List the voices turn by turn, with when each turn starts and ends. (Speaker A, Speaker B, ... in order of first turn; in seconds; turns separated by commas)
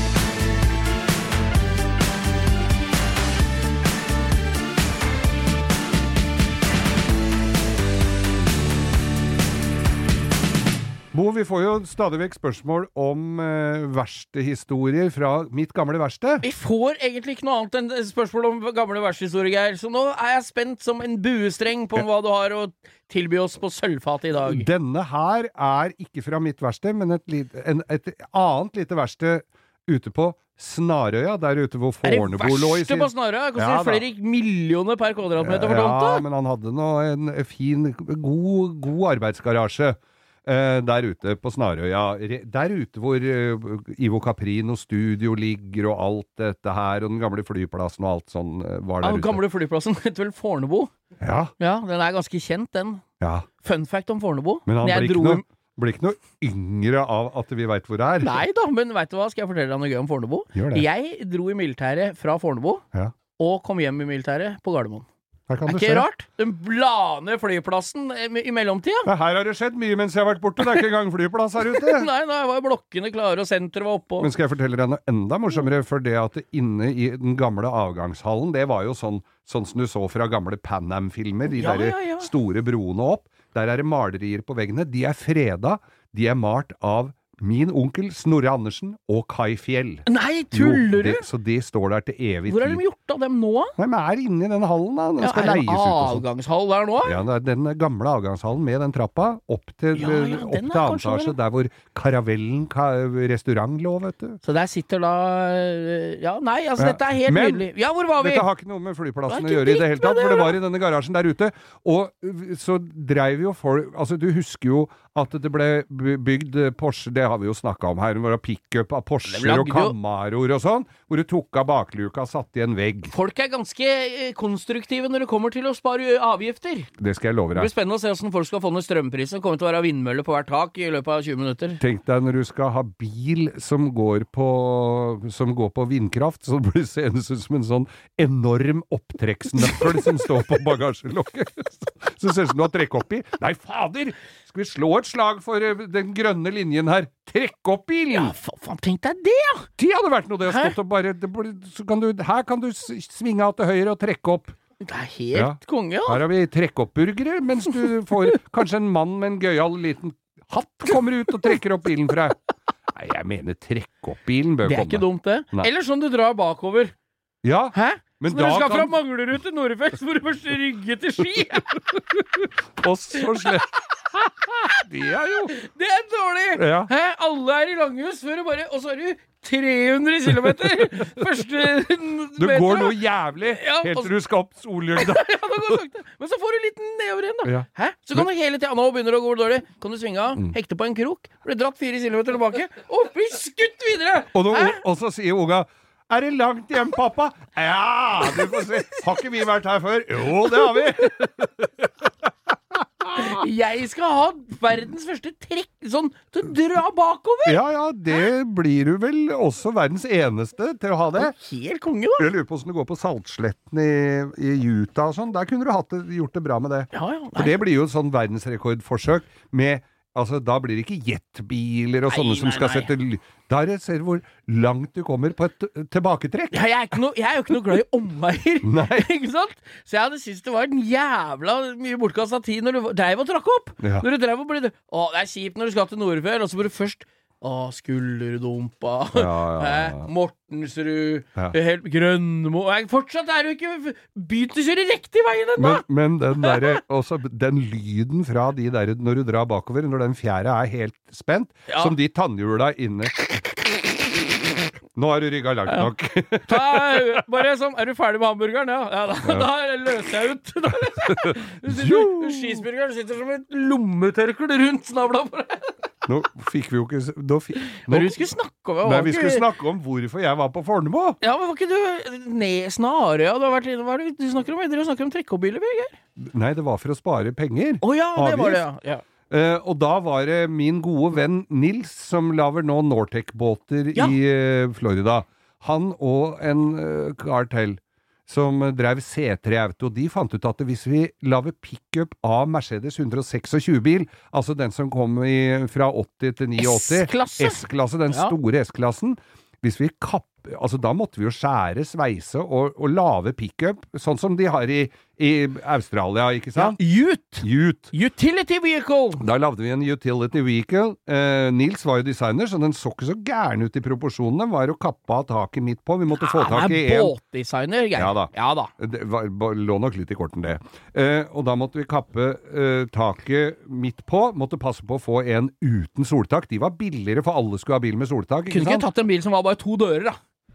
Speaker A: 11.1-16.4, Speaker B: 16.4-24.7, Speaker A: 24.4-34.0, Speaker B: 32.0-36.2, Speaker A: 35.4-49.4, Speaker B: 49.0-50.9, Speaker A: 51.2-51.5, Speaker B: 51.6-53.0, Speaker A: 53.2-53.5, Speaker B: 53.6-55.5, Speaker A: 54.7-58.4, Speaker B: 58.2-62.8, Speaker A: 60.5-60.9, Speaker B: 63.4-65.1, Speaker A: 65.5-66.1, Speaker B: 65.7-69.1, Speaker A: 69.1-72.1, Speaker B: 70.6-70.9, Speaker B: 71.7-74.3, Speaker A: 74.2-92.8, Speaker B: 81.5-82.3, Speaker B: 90.1-91.3, Speaker B: 92.5-93.7, Speaker A: 93.8-96.2, Speaker B: 95.2-97.2, Speaker A: 97.0-104.4, Speaker B: 100.0-101.4, Speaker B: 104.4-108.5, Speaker A: 106.8-123.1, Speaker B: 109.3-110.6, Speaker B: 119.3-120.0, Speaker B: 123.1-126.9, Speaker A: 127.0-127.7, Speaker B: 127.5-131.8, Speaker A: 131.8-148.3, Speaker B: 139.6-140.3, Speaker B: 148.1-149.7, Speaker A: 149.8-154.6, Speaker B: 150.5-150.8, Speaker B: 154.8-156.2, Speaker A: 155.3-162.4, Speaker A: 162.9-165.7, Speaker B: 164.7-166.9, Speaker A: 167.4-169.0, Speaker B: 167.7-171.8, Speaker A: 171.9-175.6, Speaker B: 173.2-173.6, Speaker B: 175.5-184.1, Speaker A: 176.6-176.9, Speaker A: 182.4-185.8, Speaker B: 184.9-194.8, Speaker A: 187.4-188.3, Speaker A: 194.3-202.1, Speaker B: 198.2-199.1, Speaker B: 200.3-201.3, Speaker A: 202.7-203.3, Speaker B: 203.1-207.6, Speaker A: 207.4-211.3, Speaker B: 211.2-212.3, Speaker A: 212.2-226.7, Speaker B: 216.9-217.6, Speaker B: 222.1-222.9, Speaker B: 226.5-245.8, Speaker A: 228.6-229.1, Speaker A: 233.8-234.1, Speaker A: 239.1-240.1, Speaker A: 245.6-253.2, Speaker B: 246.4-246.8, Speaker B: 251.7-252.0, Speaker A: 254.9-257.2, Speaker B: 256.5-265.9, Speaker A: 261.1-262.6, Speaker A: 266.1-268.2, Speaker B: 267.8-269.5, Speaker A: 268.8-271.2, Speaker B: 271.2-276.0, Speaker A: 276.2-278.6, Speaker B: 277.8-279.0, Speaker A: 279.3-306.8, Speaker B: 296.6-298.4, Speaker B: 306.6-309.2, Speaker A: 307.4-307.9, Speaker A: 309.2-317.2, Speaker B: 316.2-318.7, Speaker A: 318.0-328.9, Speaker B: 328.5-330.2